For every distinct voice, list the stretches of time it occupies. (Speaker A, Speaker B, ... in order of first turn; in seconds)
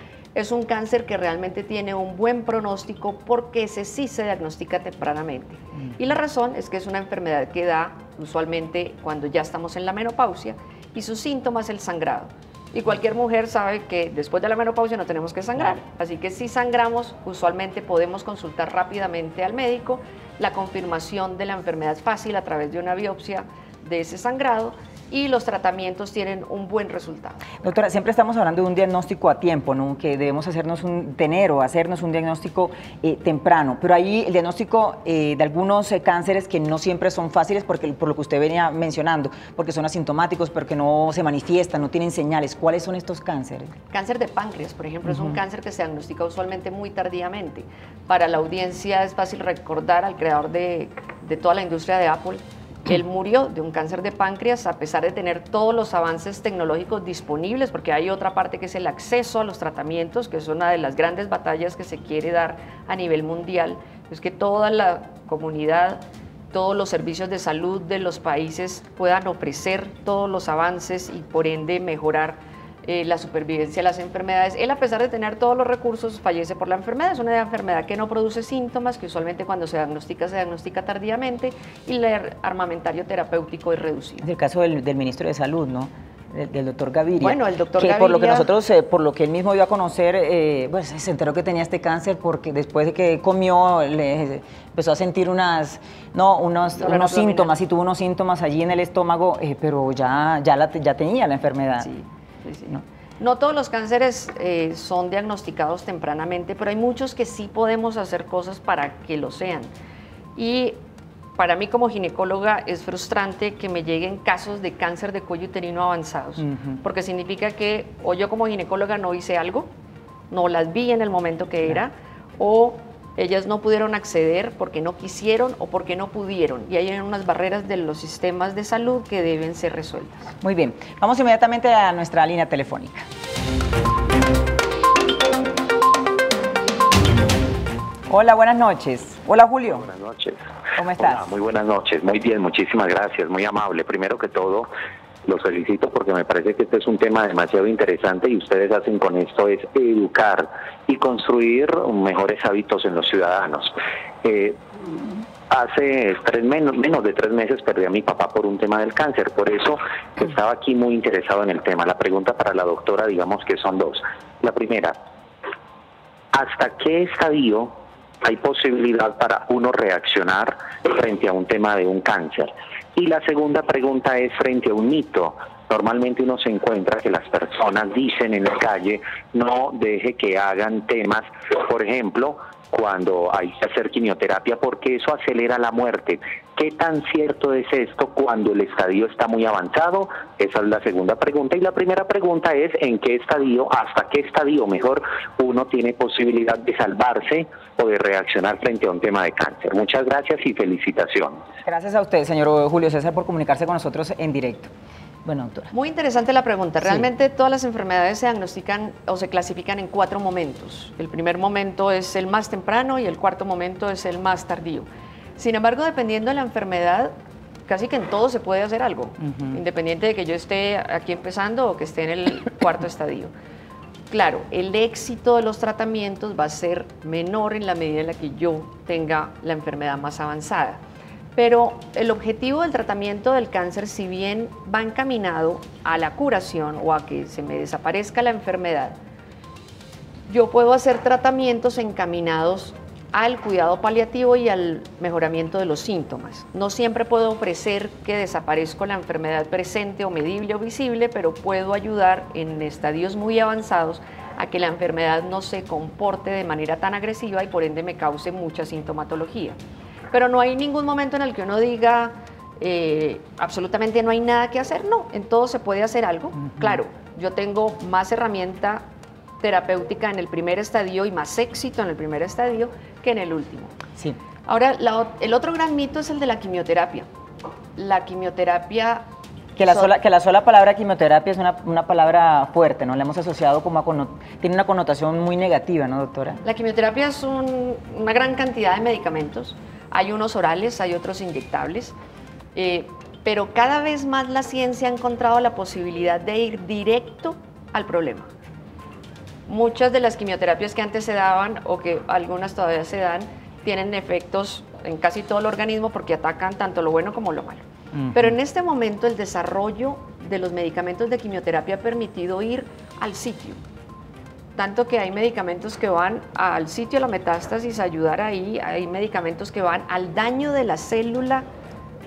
Speaker A: 0.3-27.4, 43.9-84.2, 87.2-88.5, 96.8-97.5, 101.8-109.7, 110.3-110.8, 111.4-119.7, 120.3-130.3, 205.7-217.1, 217.7-223.3, 224.1-230.8, 231.3-238.9, 240.3-259.6, 260.1-268.8, 269.4-273.7, 274.4-277.1, 277.8-279.0, 279.7-279.9, 286.4-291.9, 292.5-298.3, 299.5-307.6, 308.1-313.6, 314.6-321.4
Speaker B: 27.6-43.7, 45.0-45.4, 84.2-101.9, 116.4-116.8, 130.4-133.1, 138.1-139.9, 140.8-141.2, 201.6-204.7, 205.2-205.7, 219.2-219.6, 266.4-266.8, 279.6-286.4, 307.9-308.3
Speaker C: 139.7-140.4, 141.0-144.7, 145.2-154.6, 155.5-165.0, 166.3-201.4